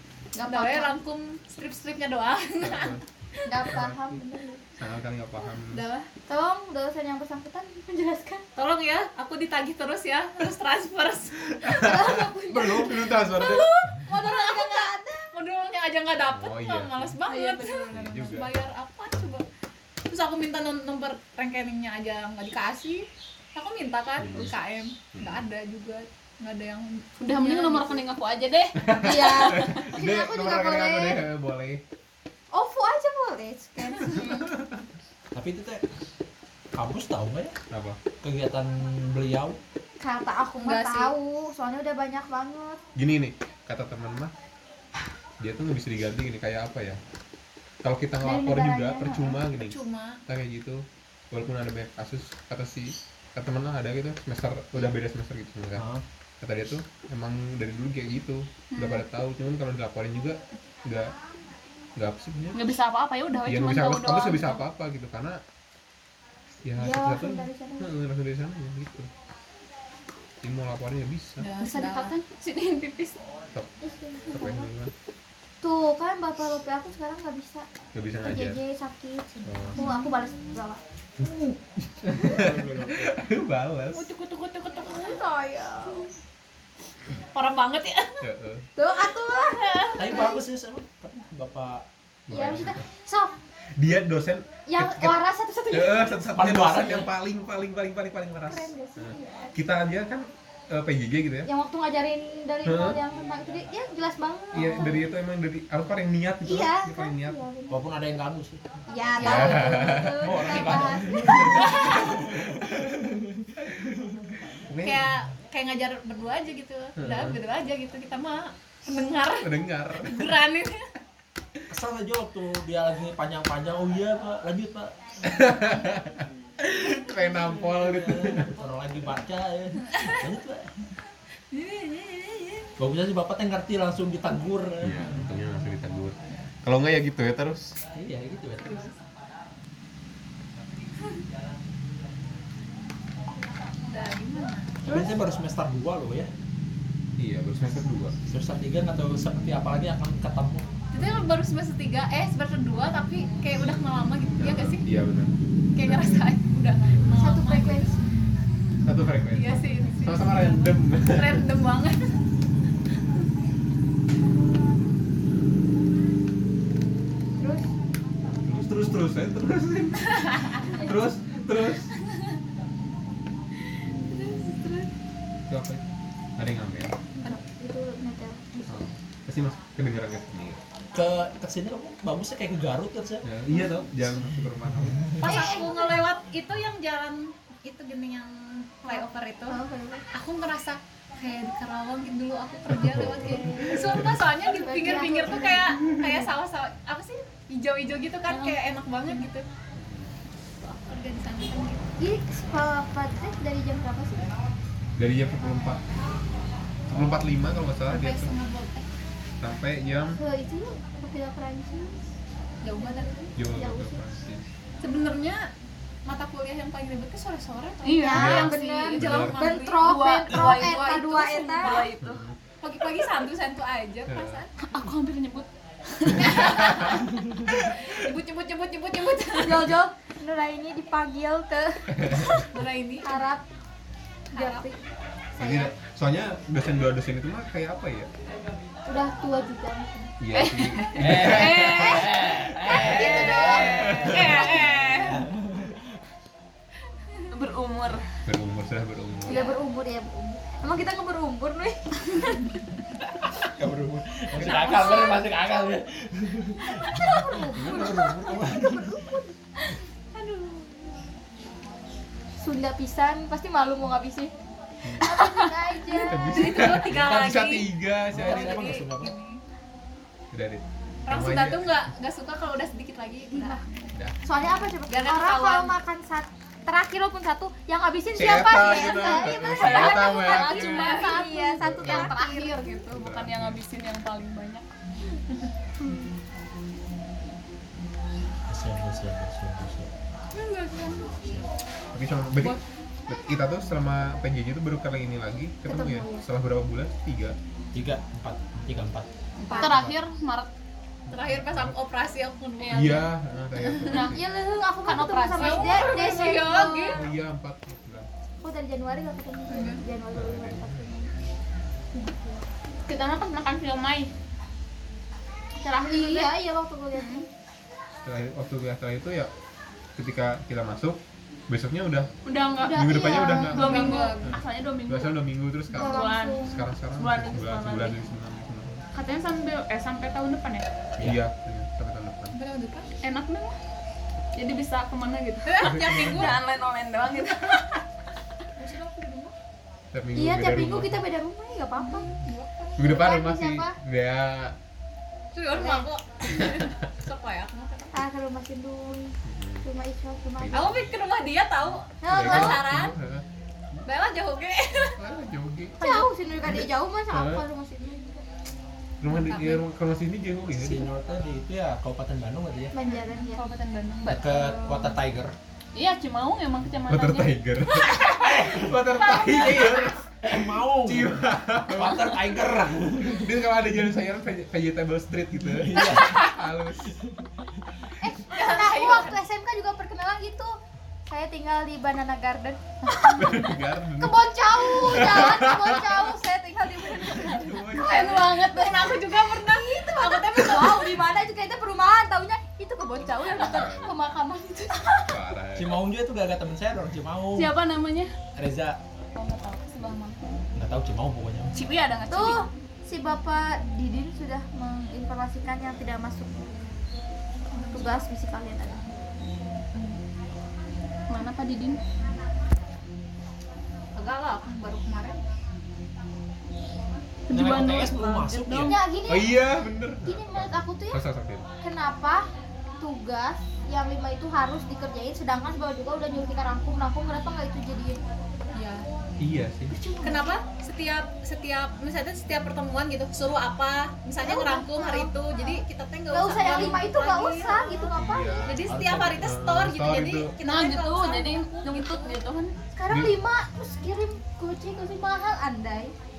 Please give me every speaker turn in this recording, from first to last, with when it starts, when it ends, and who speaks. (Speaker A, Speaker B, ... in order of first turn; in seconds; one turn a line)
Speaker A: 0.3-1.0
Speaker B: 0.4-3.0
Speaker C: 2.6-3.0
Speaker A: 3.5-4.6
Speaker C: 3.7-4.2
Speaker C: 4.8-5.8
Speaker B: 5.7-6.1
Speaker A: 6.3-8.4
Speaker B: 8.6-11.5
Speaker C: 11.6-13.7
Speaker A: 11.7-15.3
Speaker B: 13.3-19.4
Speaker C: 16.3-17.2
Speaker D: 17.3-18.4
Speaker C: 17.9-18.6
Speaker B: 20.1-27.9
Speaker C: 24.2-24.6
Speaker C: 25.1-25.4
Speaker D: 27.2-29.5
Speaker A: 27.5-27.9
Speaker C: 28.8-31.8
Speaker A: 28.9-31.2
Speaker A: 32.5-34.5
Speaker C: 34.1-34.8
Speaker E: 35.3-35.8
Speaker E: 36.8-37.6
Speaker C: 37.7-38.0
Speaker E: 38.2-39.6
Speaker A: 40.0-42.8
Speaker B: 40.6-41.1
Speaker C: 43.0-44.3
Speaker C: 45.4-47.0
Speaker C: 47.8-49.8
Speaker A: 48.2-49.4
Speaker B: 49.5-50.2
Speaker C: 50.3-55.9
Speaker E: 55.8-56.0
Speaker C: 56.4-61.1
Speaker D: 58.7-59.0
Speaker C: 62.0-62.6
Speaker D: 62.5-64.6
Speaker C: 63.5-65.4
Speaker C: 66.6-69.1
Speaker A: 66.8-67.9
Speaker C: 70.4-71.5
Speaker B: 71.4-72.2
Speaker D: 71.6-73.2
Speaker A: 73.8-74.7
Speaker C: 74.3-74.9
Speaker A: 75.6-77.7
Speaker C: 77.9-78.6
Speaker A: 78.2-80.8
Speaker C: 79.4-79.8
Speaker C: 81.2-84.1
Speaker E: 82.3-82.8
Speaker B: 84.0-85.2
Speaker A: 85.0-86.0
Speaker B: 87.3-88.2
Speaker C: 88.2-88.7
Speaker A: 88.8-90.4
Speaker B: 89.5-90.0
Speaker E: 90.0-91.8
Speaker C: 92.3-92.9
Speaker A: 92.3-93.3
Speaker C: 93.8-95.2
Speaker A: 94.7-96.2
Speaker C: 95.7-101.5
Speaker E: 96.3-97.1
Speaker A: 98.5-99.6
Speaker A: 101.5-105.1
Speaker C: 102.6-103.0
Speaker C: 104.5-107.4
Speaker A: 106.5-107.8
Speaker E: 107.7-108.6
Speaker A: 108.9-112.1
Speaker B: 109.2-109.7
Speaker C: 109.2-110.8
Speaker E: 110.1-114.3
Speaker C: 111.6-112.1
Speaker C: 114.7-115.1
Speaker B: 114.8-120.9
Speaker C: 117.0-117.4
Speaker C: 119.4-120.3
Speaker E: 121.7-125.0
Speaker C: 125.2-128.5
Speaker E: 127.3-130.8
Speaker B: 129.9-130.2
Speaker B: 131.5-132.7
Speaker E: 132.8-135.3
Speaker C: 134.8-137.8
Speaker E: 137.9-138.9
Speaker B: 143.7-144.8
Speaker E: 144.8-146.3
Speaker C: 147.2-148.1
Speaker E: 148.3-150.7
Speaker B: 150.9-154.8
Speaker C: 154.4-155.3
Speaker B: 155.7-158.0
Speaker A: 157.1-158.0
Speaker C: 158.8-161.5
Speaker B: 159.3-162.1
Speaker A: 167.4-167.7
Speaker C: 168.4-171.9
Speaker B: 170.2-170.8
Speaker B: 174.1-174.9
Speaker C: 175.5-175.8
Speaker C: 176.4-177.0
Speaker A: 177.2-178.8
Speaker C: 178.7-180.6
Speaker E: 180.9-183.3
Speaker C: 183.2-185.1
Speaker B: 185.2-189.6
Speaker A: 185.2-186.0
Speaker A: 188.9-190.1
Speaker B: 190.1-199.5
Speaker C: 192.7-194.2
Speaker A: 194.5-196.3
Speaker D: 198.3-198.6
Speaker C: 199.7-200.1
Speaker B: 200.6-201.9
Speaker A: 202.0-204.3
Speaker C: 205.0-205.8
Speaker C: 206.9-208.3
Speaker B: 207.9-208.9
Speaker C: 209.4-210.2
Speaker A: 210.2-212.0
Speaker B: 212.6-213.4
Speaker A: 212.8-214.0
Speaker C: 213.4-214.5
Speaker B: 214.8-215.5
Speaker B: 216.1-218.2
Speaker D: 217.8-222.2
Speaker A: 218.0-221.9
Speaker C: 218.2-219.4
Speaker B: 218.9-219.9
Speaker B: 220.4-221.0
Speaker B: 221.6-221.9
Speaker C: 222.0-222.4
Speaker B: 222.6-224.5
Speaker C: 224.1-224.4
Speaker D: 224.6-227.0
Speaker C: 226.1-227.0
Speaker B: 226.1-229.7
Speaker A: 229.3-232.5
Speaker C: 231.9-232.4
Speaker B: 232.5-233.2
Speaker A: 233.0-233.4
Speaker A: 234.3-234.8
Speaker D: 234.4-234.6
Speaker C: 235.4-238.1
Speaker A: 235.4-235.7
Speaker A: 238.9-240.1
Speaker C: 240.2-242.1
Speaker D: 240.3-242.2
Speaker E: 241.0-246.0
Speaker A: 242.7-244.6
Speaker D: 242.8-245.2
Speaker B: 243.0-245.0
Speaker C: 243.7-244.5
Speaker D: 247.3-248.0
Speaker C: 248.3-249.4
Speaker A: 249.3-252.5
Speaker E: 253.4-259.1
Speaker A: 254.4-255.2
Speaker A: 256.6-259.6
Speaker C: 257.6-257.9
Speaker A: 260.1-260.9
Speaker A: 262.4-264.3
Speaker C: 264.8-265.1
Speaker A: 265.0-266.8
Speaker D: 265.2-265.5
Speaker B: 266.0-269.4
Speaker C: 266.0-268.8
Speaker E: 268.1-269.1
Speaker C: 270.3-271.9
Speaker B: 271.1-273.6
Speaker A: 273.3-273.6
Speaker A: 274.2-282.7
Speaker B: 274.9-275.8
Speaker C: 278.1-281.0
Speaker D: 278.9-284.6
Speaker B: 280.5-282.8
Speaker C: 281.6-282.1
Speaker C: 282.9-283.6
Speaker E: 288.5-289.9
Speaker D: 290.4-291.2
Speaker E: 291.1-291.5
Speaker C: 291.9-297.4
Speaker A: 295.7-296.2
Speaker E: 297.7-299.1
Speaker B: 299.4-299.7
Speaker A: 299.5-299.8
Speaker D: 299.6-300.5
Speaker C: 301.1-301.8
Speaker B: 301.1-303.0
Speaker D: 302.6-303.1
Speaker C: 302.7-304.2
Speaker B: 303.6-304.0
Speaker D: 303.9-304.2
Speaker A: 304.0-307.0
Speaker D: 304.9-306.7
Speaker B: 305.3-307.0
Speaker C: 306.9-308.1
Speaker A: 308.4-311.1
Speaker B: 309.5-309.8
Speaker C: 310.1-310.8
Speaker A: 311.9-312.4
Speaker D: 312.9-314.1
Speaker D: 315.6-316.4
Speaker A: 315.6-317.3
Speaker D: 316.9-317.2
Speaker C: 318.0-319.3
Speaker C: 320.0-322.1
Speaker D: 322.2-325.2
Speaker A: 322.6-324.1
Speaker C: 322.6-328.8
Speaker B: 323.5-324.3
Speaker D: 325.7-328.0
Speaker A: 325.7-326.6
Speaker D: 328.9-330.7
Speaker C: 331.0-332.4
Speaker B: 332.3-332.9
Speaker D: 333.0-333.6
Speaker D: 334.4-337.8
Speaker B: 335.5-336.4
Speaker C: 335.6-336.4
Speaker B: 338.6-339.3
Speaker C: 339.9-341.0
Speaker A: 340.1-342.1
Speaker B: 341.8-342.9
Speaker C: 342.8-344.6
Speaker A: 342.8-343.8
Speaker B: 345.3-348.0
Speaker A: 345.5-345.9
Speaker A: 347.9-350.8
Speaker C: 349.2-349.7
Speaker C: 350.4-350.8
Speaker B: 350.5-352.9
Speaker A: 352.0-352.8
Speaker C: 352.1-353.2
Speaker B: 353.9-355.0
Speaker C: 355.0-355.8
Speaker A: 355.8-358.2
Speaker C: 356.5-357.4
Speaker C: 359.0-360.9
Speaker B: 359.1-359.6
Speaker E: 360.5-362.7
Speaker A: 362.7-363.4
Speaker D: 362.9-365.0
Speaker E: 364.1-365.4
Speaker D: 365.8-368.0
Speaker C: 366.9-372.4
Speaker E: 368.1-373.3
Speaker C: 373.0-377.0
Speaker E: 375.4-376.2
Speaker B: 376.0-376.3
Speaker E: 376.9-377.3
Speaker A: 378.0-395.1
Speaker B: 378.3-379.2
Speaker C: 383.1-386.1
Speaker C: 387.1-388.2
Speaker D: 387.8-388.9
Speaker B: 387.9-391.0
Speaker C: 393.3-394.0
Speaker C: 395.1-395.8
Speaker E: 395.6-397.5
Speaker D: 397.4-398.1
Speaker E: 398.4-398.8
Speaker D: 399.1-400.4
Speaker E: 400.6-401.6
Speaker D: 401.5-402.4
Speaker A: 402.1-406.6
Speaker A: 407.5-409.0
Speaker B: 407.6-408.0
Speaker D: 411.1-411.8
Speaker B: 413.9-415.2
Speaker D: 417.3-418.8
Speaker E: 417.3-418.8
Speaker A: 418.6-419.4
Speaker C: 419.1-421.5
Speaker A: 420.1-421.0
Speaker A: 421.6-422.3
Speaker A: 422.8-428.0
Speaker B: 428.5-428.9
Speaker C: 429.2-429.8
Speaker A: 429.7-430.4
Speaker B: 430.0-442.2
Speaker A: 434.2-435.6
Speaker A: 436.1-438.6
Speaker C: 437.9-440.4
Speaker E: 438.6-439.3
Speaker D: 440.4-442.6
Speaker A: 442.7-445.9
Speaker C: 442.9-443.2